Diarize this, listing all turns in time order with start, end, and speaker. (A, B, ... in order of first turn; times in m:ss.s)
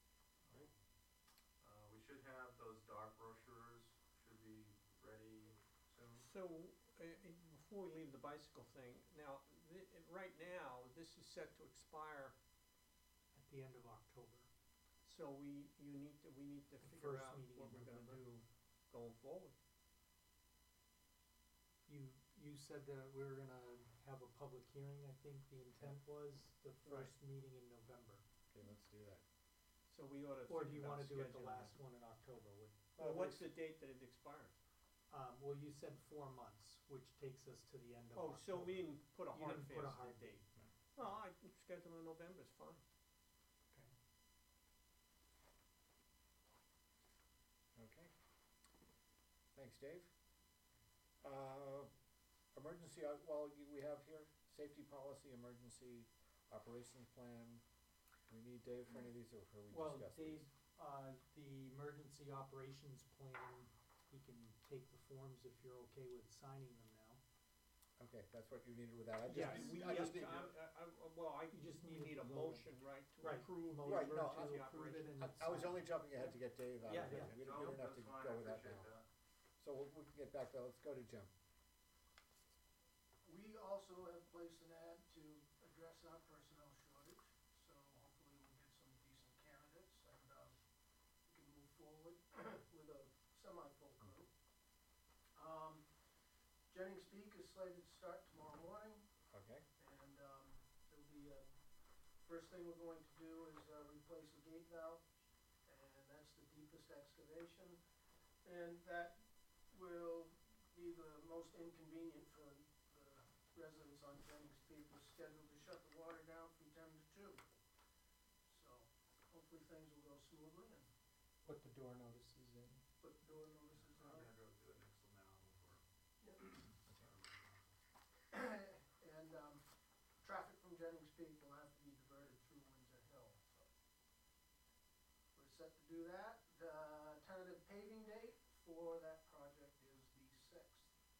0:00.4-0:00.7 A
0:01.6-0:06.2 A
0:06.2-0:12.3 B
0:13.3-0:14.5 C
0:15.0-0:19.6 B
0:16.8-0:18.4 C
0:21.9-0:28.2 C
0:26.8-0:27.1 B
0:28.5-0:29.2 D
0:29.9-0:31.8 B
0:30.4-0:33.5 C
0:33.0-0:34.6 B
0:35.1-0:40.4 C
0:38.1-0:42.8 B
0:47.8-0:48.1 D
0:49.5-0:50.1 D
0:51.2-0:51.9 D
0:52.5-0:57.6 D
0:58.3-1:00.5 D
0:59.7-1:07.2 C
1:08.0-1:10.5 D
1:09.2-1:15.2 B
1:09.3-1:09.9 C
1:11.5-1:12.7 C
1:13.2-1:15.9 C
1:13.8-1:18.9 D
1:16.8-1:17.4 C
1:17.0-1:19.0 A
1:19.6-1:21.3 D
1:23.2-1:30.5 E
1:31.2-1:34.3 E
1:35.3-1:35.8 E
1:36.7-1:39.0 E
1:39.3-1:39.6 D
1:39.8-1:41.5 E
1:42.2-1:45.0 E
1:45.6-1:47.8 E
1:48.4-1:57.4 E
1:58.4-2:00.9 E
2:01.4-2:02.8 C
2:03.0-2:04.3 E
2:03.8-2:05.8 A
2:06.2-2:06.5 E
2:06.5-2:07.6 A
2:08.3-2:09.6 E
2:10.2-2:13.7 E
2:15.3-2:20.9 E